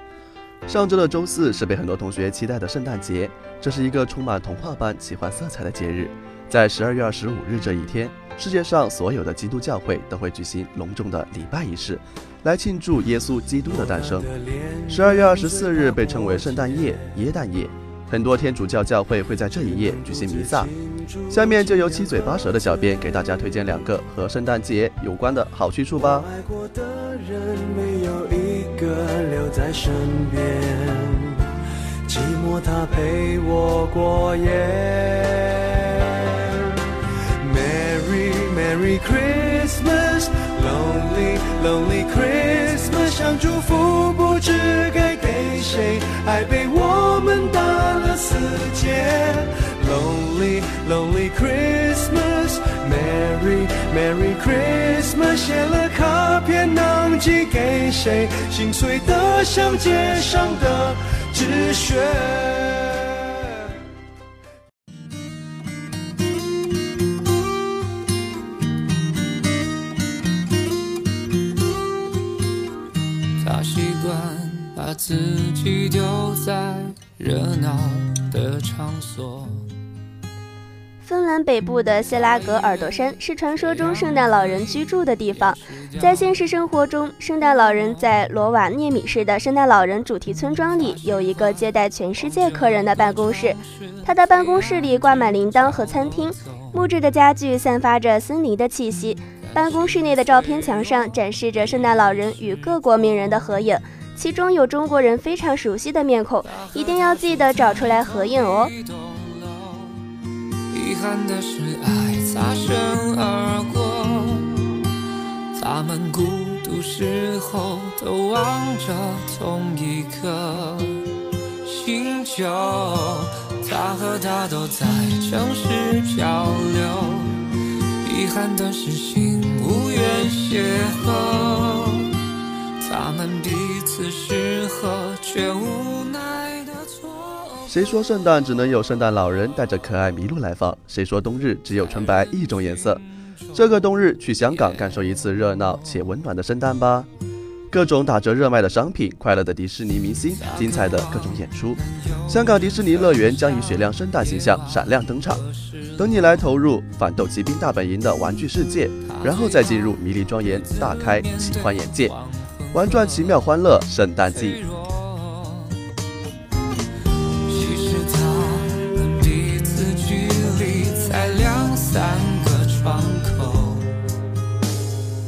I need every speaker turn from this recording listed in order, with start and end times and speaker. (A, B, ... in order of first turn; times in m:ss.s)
0:00.7-0:14.3 A
0:13.6-0:17.2 B
0:14.9-0:20.7 A
0:19.6-0:22.8 B
0:21.3-0:26.3 A
0:26.0-0:31.5 B
0:32.0-1:03.8 B
1:13.4-1:19.7 C
1:21.0-1:48.7 D
1:22.2-1:24.8 C
1:25.5-1:26.3 C
1:30.8-1:31.6 C
1:32.2-1:36.6 C
1:39.4-1:41.1 C
1:41.9-1:42.8 C
1:46.5-1:50.0 C
1:50.7-1:54.9 C
1:55.5-2:01.1 C
2:01.6-2:07.5 C
2:08.0-2:12.2 C
2:12.8-2:17.7 C
2:17.6-2:27.1 A
2:22.0-2:22.6 C
2:24.5-2:25.2 C
2:27.7-2:35.4 A
2:30.4-2:36.3 C
2:36.0-2:42.1 A
2:39.0-2:43.4 C
2:42.7-2:44.6 A
2:44.2-2:45.8 C
2:47.4-2:54.0 C